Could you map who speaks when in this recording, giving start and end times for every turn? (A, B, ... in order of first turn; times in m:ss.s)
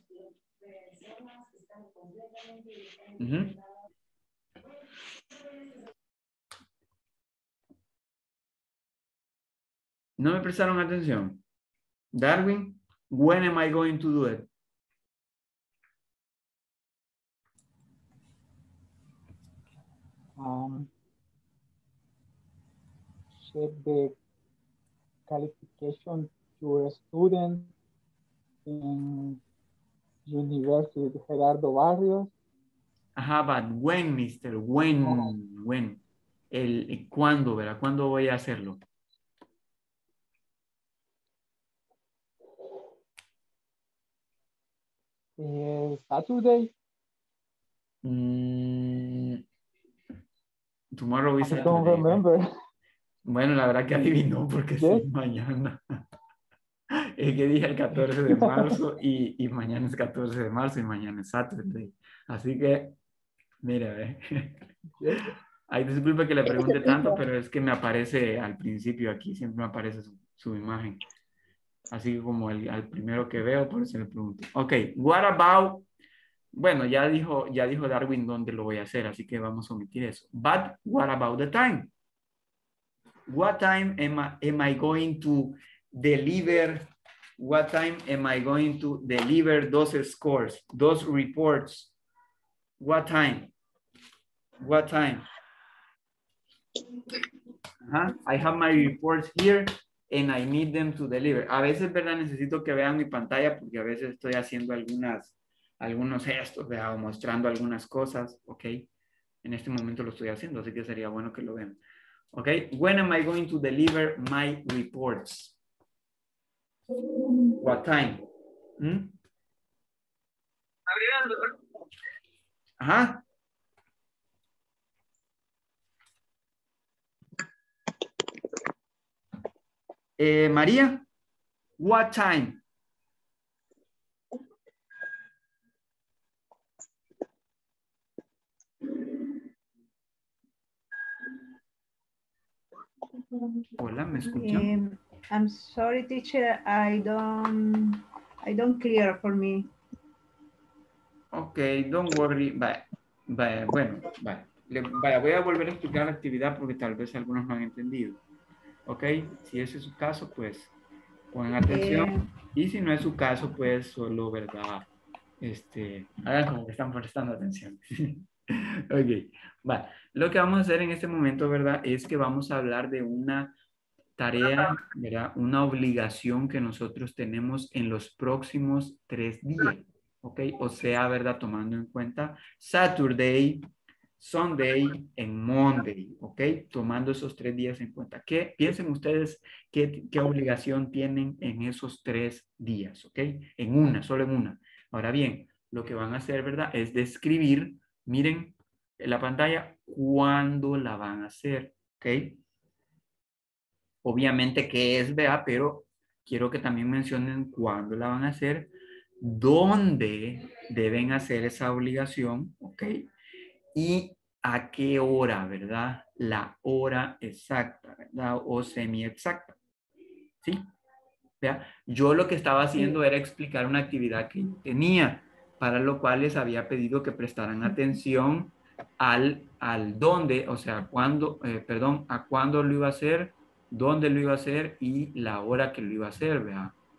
0:03.2-0:03.6 A
0:10.2-0:11.4 A
0:12.1-0:14.5 A
0:20.4-0:20.9 B
0:23.4-0:24.2 B
0:25.3-0:27.7 B
0:28.6-0:29.4 B
0:30.2-0:32.3 B
0:33.2-0:36.0 A
0:35.0-0:35.3 B
0:36.5-0:38.8 A
0:45.4-0:46.7 B
0:48.0-0:49.4 A
0:50.9-0:52.2 A
0:51.4-0:52.4 B
0:53.2-0:55.8 A
0:54.8-0:55.1 B
0:57.2-1:02.9 A
0:58.3-0:58.7 B
1:03.6-1:04.6 A
1:05.0-1:05.3 B
1:05.7-1:11.0 A
1:11.9-1:15.8 A
1:16.5-1:21.9 A
1:23.3-1:31.9 A
1:32.8-1:33.5 A
1:34.6-1:35.2 A
1:37.8-1:48.8 A
1:49.4-1:51.8 A
1:52.3-1:55.6 A
1:57.6-1:58.2 A
1:58.8-1:59.1 A
2:02.8-2:03.2 A
2:10.2-2:11.0 A
2:11.8-2:12.6 A
2:23.8-2:24.7 A
2:24.3-2:29.7 C
2:31.3-2:38.2 A
2:38.8-2:40.7 A
2:41.3-2:44.8 A
2:41.6-2:42.2 C
2:45.4-2:53.5 A
2:54.2-3:03.7 A
3:04.2-3:22.4 A
3:24.0-3:33.0 A
3:33.7-3:39.6 A
3:41.4-3:56.7 A